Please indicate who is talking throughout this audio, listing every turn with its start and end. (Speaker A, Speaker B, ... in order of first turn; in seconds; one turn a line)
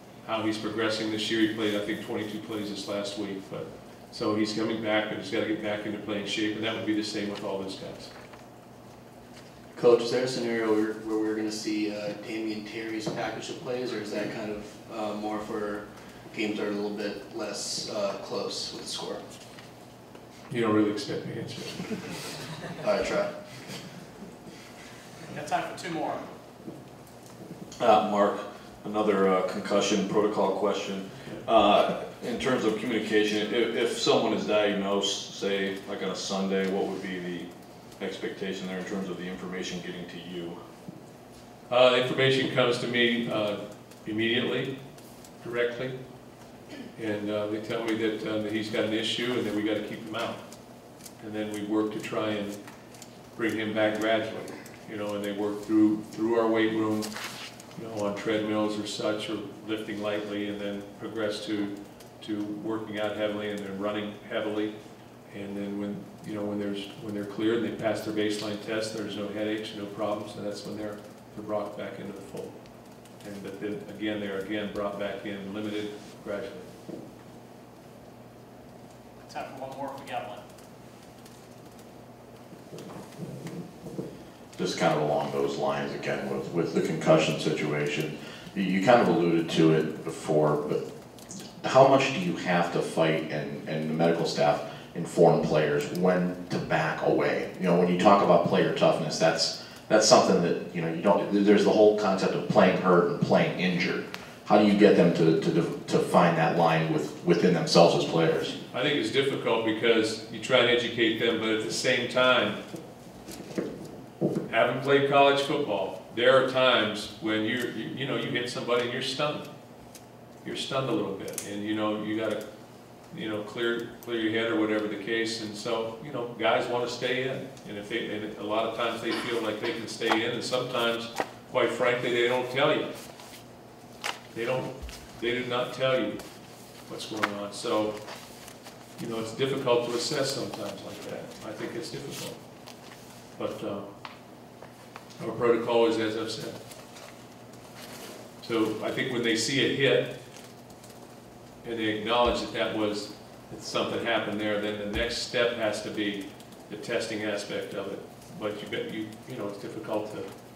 Speaker A: 0.2-8.1
Speaker B: 9.7-19.2
Speaker A: 20.5-22.1
Speaker B: 22.8-23.3
Speaker C: 25.3-26.3
Speaker D: 27.8-40.6
Speaker A: 41.7-44.7
Speaker A: 45.4-46.0
Speaker A: 47.0-50.4
Speaker A: 51.2-52.6
Speaker A: 53.4-57.1
Speaker A: 57.7-64.7
Speaker A: 65.3-72.5
Speaker A: 73.2-76.7
Speaker C: 79.3-80.4
Speaker E: 84.5-90.8
Speaker E: 91.6-108.6
Speaker A: 108.7-112.6
Speaker A: 114.5-119.5
Speaker A: 120.4-122.4
Speaker A: 123.1-132.9
Speaker A: 134.3-136.2
Speaker A: 136.9-138.0
Speaker A: 139.0-142.4
Speaker A: 143.4-143.9
Speaker A: 145.2-146.6
Speaker A: 148.4-150.1
Speaker A: 151.6-160.3